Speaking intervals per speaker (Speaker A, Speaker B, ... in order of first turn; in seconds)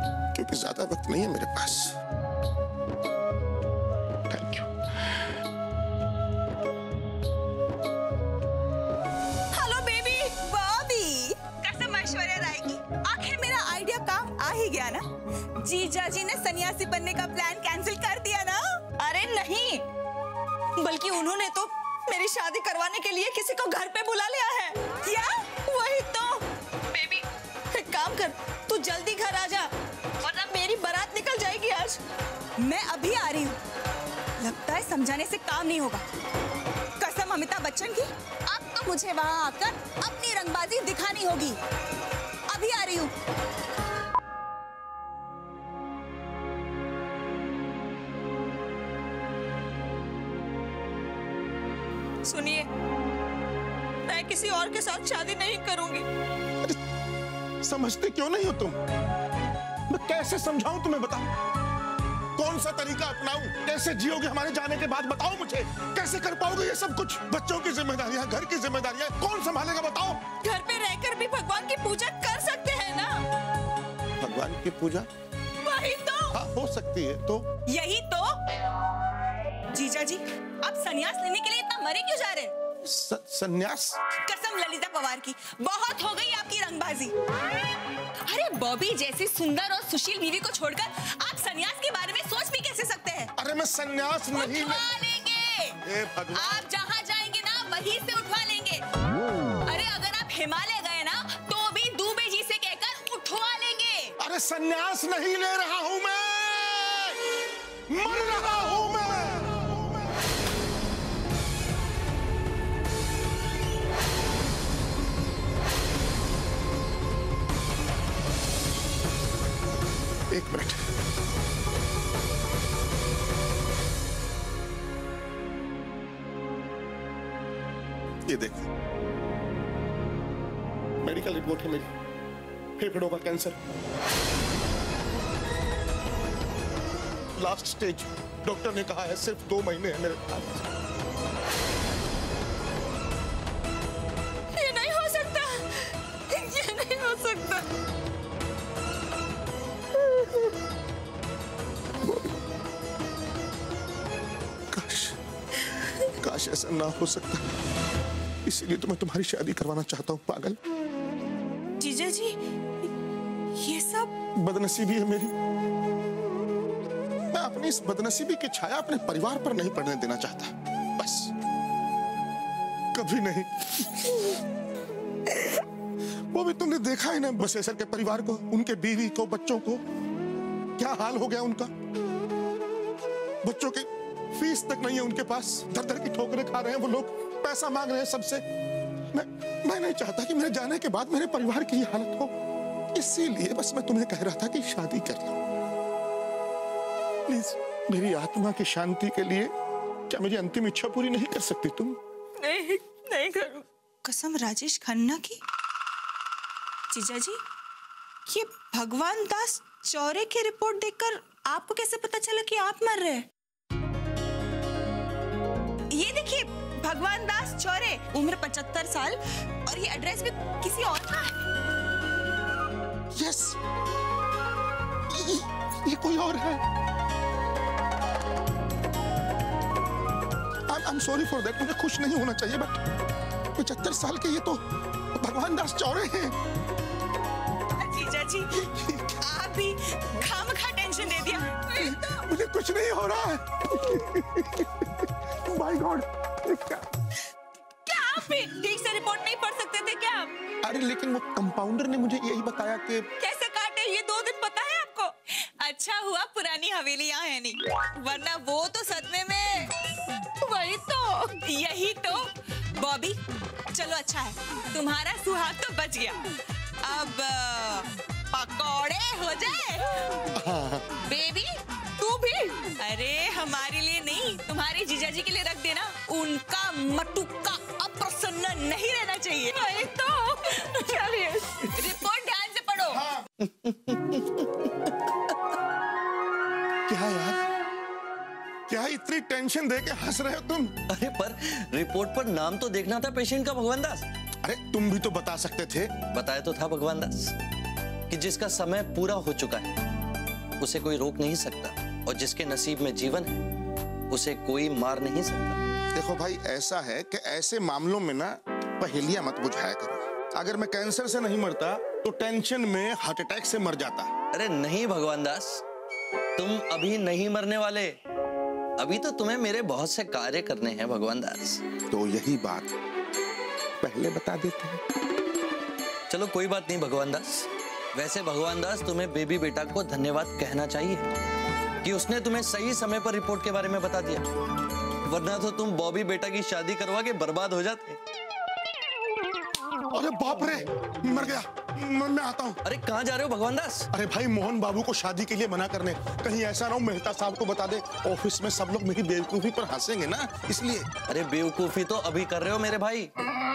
Speaker A: 0.3-2.0, 4.3-5.2, 57.6-58.8, 59.9-61.3, 62.4-70.2, 74.2-75.1, 76.3-77.5, 82.8-84.0, 93.4-94.8, 95.8-96.7, 104.2-107.2, 107.9-109.7, 120.3-120.8, 128.3-128.7, 131.0-131.9, 132.8-133.6, 137.4-140.6, 152.0-152.3, 154.7-155.2, 156.2-157.5, 158.5-160.6, 164.4-165.3, 167.3-171.3, 172.9-174.2, 176.3-179.8, 180.8-181.7, 183.4-188.4, 189.1-192.3, 192.9-195.4, 197.3-199.5, 200.1-202.0, 223.1-223.6, 225.1-226.6, 230.7-232.8, 233.6-234.6, 235.2-236.4, 238.6-239.0, 241.8-246.8, 250.6-253.1, 270.4-270.9, 282.9-283.2, 286.9-287.4, 288.7-290.8, 294.4-295.9, 305.9-314.1, 321.9-322.7, 323.8-324.8, 339.9-342.6, 343.9-350.9
Speaker B: 9.5-15.1, 15.6-19.8, 20.8-32.0, 32.6-33.6, 34.4-36.0, 37.0-41.6, 42.5-43.1, 52.2-52.7, 54.1-56.1, 70.4-73.2, 75.6-76.3, 77.7-78.4, 79.7-82.5, 84.2-87.1, 88.2-93.3, 94.3-95.8, 96.3-98.8, 99.7-104.1, 144.5-147.7, 161.8-162.9, 163.6-164.1, 202.4-205.4, 206.9-207.4, 208.3-213.3, 215.9-221.4, 237.8-238.6, 239.2-242.2, 247.8-250.3, 253.2-259.7, 260.4-263.2, 263.7-266.2, 266.8-270.3, 271.0-283.1
Speaker C: 283.4-284.9, 290.9-294.1, 296.1-297.3, 298.1-299.7, 300.6-303.4, 304.1-305.6, 314.3-315.6, 316.4-317.9, 318.8-321.6, 326.1-331.1, 331.8-334.2, 335.1-338.0, 342.6-343.9, 351.1-353.1